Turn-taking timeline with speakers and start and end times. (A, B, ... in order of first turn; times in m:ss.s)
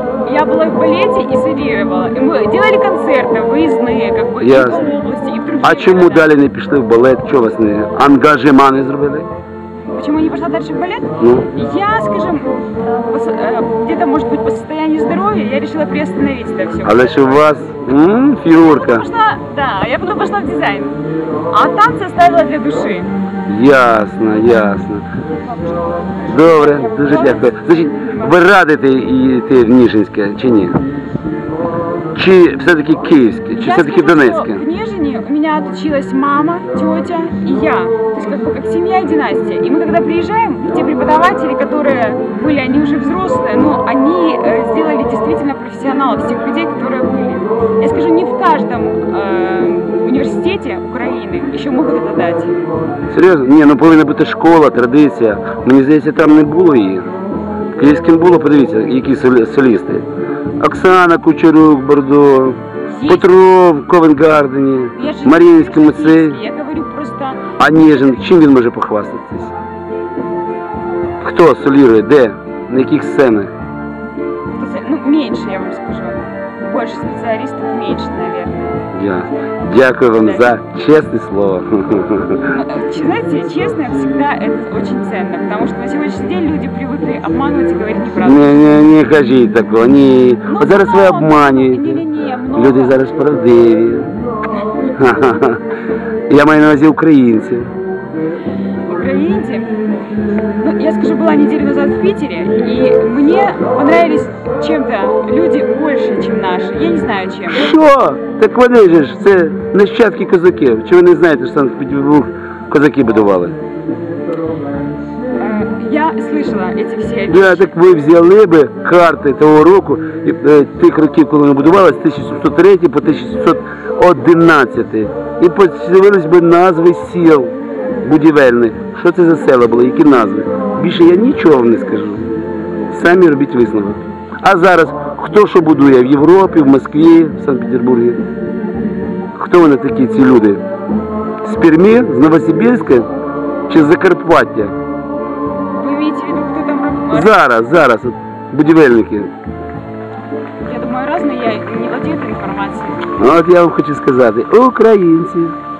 0:00.2-0:06.3 A
0:04.4-0:04.8 B
0:05.6-0:09.3 B
0:09.9-0:12.5 A
0:11.2-0:11.5 B
0:13.1-0:17.4 A
0:16.8-0:19.1 B
0:18.6-0:23.1 A
0:23.5-0:25.1 B
0:25.4-0:28.4 A
0:26.3-0:30.8 B
0:32.1-0:34.6 B
0:33.6-0:52.6 A
0:53.1-0:57.1 B
0:57.8-1:00.1 B
1:00.6-1:06.4 B
1:02.9-1:03.3 A
1:05.0-1:08.1 A
1:07.6-1:09.5 B
1:11.2-1:13.5 B
1:14.5-1:18.8 A
1:18.9-1:22.6 B
1:20.2-1:20.5 A
1:22.5-1:28.6 A
1:28.2-1:34.1 B
1:30.5-1:33.0 A
1:35.0-1:35.6 B
1:36.3-1:37.7 B
1:38.9-1:39.7 A
1:40.6-1:47.7 A
1:47.5-1:53.6 B
1:55.4-1:57.7 A
1:57.3-2:07.5 B
2:08.0-2:12.3 B
2:12.9-2:18.2 B
2:19.4-2:20.6 B
2:21.4-2:23.1 B
2:23.7-2:24.7 B
2:25.7-2:27.3 A
2:27.1-2:29.3 B
2:30.6-2:33.2 A
2:33.2-2:35.6 B